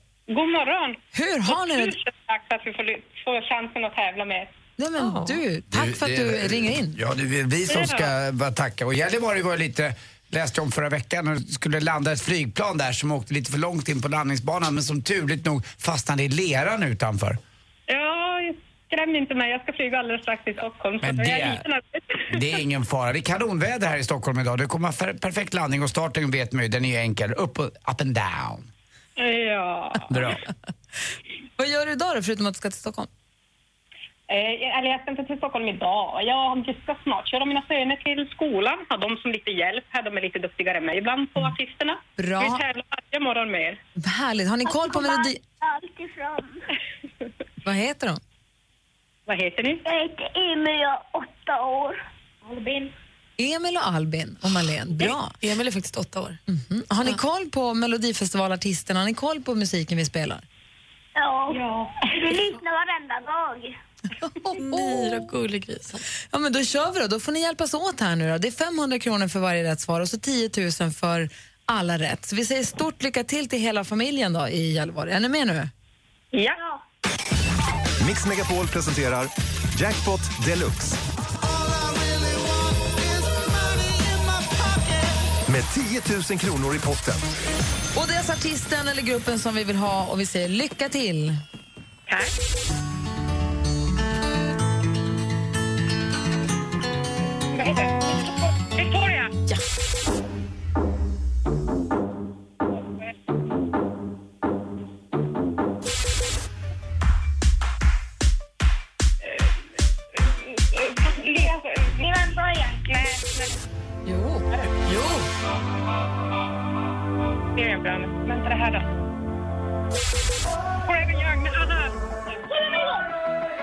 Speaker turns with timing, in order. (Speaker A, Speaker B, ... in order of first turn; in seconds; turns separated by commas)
Speaker A: 0.3-4.5, Speaker B: 1.1-1.9, Speaker B: 4.8-7.0, Speaker C: 5.0-5.4, Speaker D: 5.7-17.4, Speaker A: 7.7-8.1, Speaker A: 17.9-22.4, Speaker D: 21.0-21.6, Speaker D: 22.3-28.7, Speaker A: 29.2-30.2, Speaker D: 30.1-30.5, Speaker B: 31.6-33.1, Speaker A: 34.3-43.8, Speaker B: 42.2-42.6, Speaker B: 44.0-45.4, Speaker E: 44.7-46.6, Speaker B: 47.6-48.2, Speaker A: 49.3-49.8, Speaker E: 49.9-52.9, Speaker B: 53.4-55.3, Speaker C: 55.0-56.4, Speaker B: 56.5-60.5, Speaker E: 61.2-63.8, Speaker B: 64.3-65.2, Speaker C: 64.5-66.0, Speaker B: 66.3-75.7, Speaker A: 76.3-76.6, Speaker F: 78.0-81.0, Speaker F: 85.5-87.3, Speaker B: 88.0-91.4, Speaker A: 97.5-99.3, Speaker A: 110.2-112.1, Speaker E: 112.0-113.0, Speaker A: 112.8-113.5, Speaker B: 114.1-114.4, Speaker C: 114.9-115.3, Speaker A: 117.6-118.9, Speaker A: 120.8-122.0